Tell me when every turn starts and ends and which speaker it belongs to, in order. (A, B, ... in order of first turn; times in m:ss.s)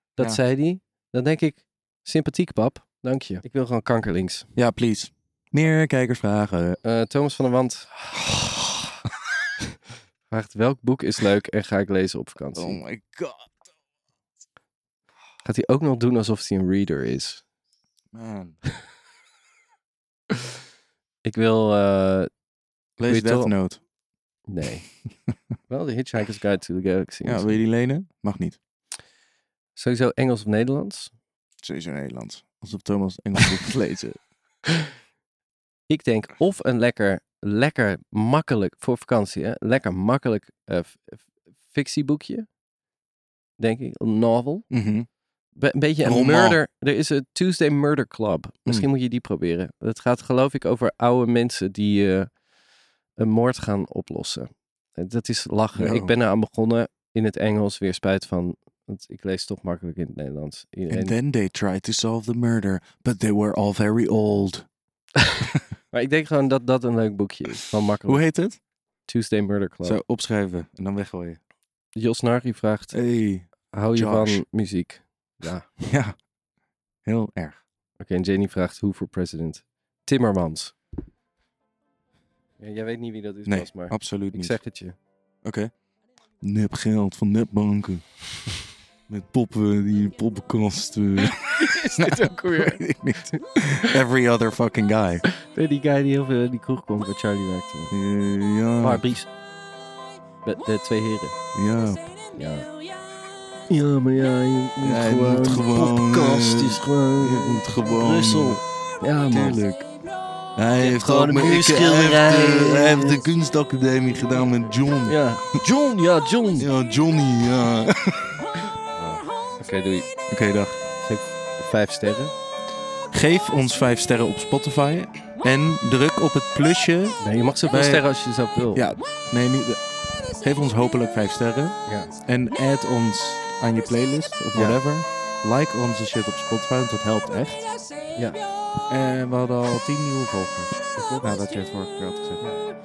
0:00.2-0:04.5 A
0:04.6-0:06.8 B
0:06.8-0:08.2 A
0:10.3-0:12.8 A
0:12.6-0:13.6 B
0:15.4-0:17.4 A
0:18.1-0:18.6 B
0:21.2-0:22.3 A
0:23.0-0:23.8 B
0:23.1-0:23.5 A
0:24.5-0:24.9 A
0:25.7-0:27.6 A
0:27.2-0:28.6 B
0:29.8-0:31.1 A
0:31.6-0:34.2 B
0:35.9-0:42.5 A
0:43.6-0:44.7 A
0:44.7-0:45.1 B
0:45.6-0:52.3 A
0:46.0-0:46.6 B
0:53.2-1:01.2 A
0:55.8-0:56.1 B
1:00.9-1:04.7 B
1:05.9-1:08.3 A
1:08.1-1:08.6 B
1:09.1-1:10.0 A
1:09.8-1:11.4 B
1:12.0-1:13.0 A
1:12.9-1:14.4 B
1:13.7-1:15.9 A
1:15.9-1:16.2 B
1:17.0-1:17.6 B
1:18.0-1:20.8 A
1:22.6-1:25.0 A
1:23.5-1:24.6 B
1:25.4-1:25.7 B
1:26.4-1:28.2 B
1:29.1-1:35.2 B
1:31.2-1:33.4 A
1:35.3-1:37.9 A
1:37.9-1:39.1 B
1:38.8-1:39.3 A
1:40.4-1:41.4 A
1:41.6-1:42.0 B
1:42.3-1:42.7 A
1:43.7-1:49.6 A
1:44.8-1:48.6 B
1:49.2-1:49.9 B
1:50.6-1:55.3 B
1:50.8-1:53.2 A
1:55.1-1:56.7 A
1:56.6-1:58.3 B
1:58.9-2:00.1 A
2:00.3-2:00.8 B
2:01.0-2:02.3 A
2:03.1-2:08.0 B
2:07.2-2:08.8 A
2:08.7-2:09.8 B
2:10.3-2:17.7 B
2:11.9-2:12.1 A
2:14.5-2:14.8 A
2:18.9-2:22.5 B
2:21.0-2:21.3 A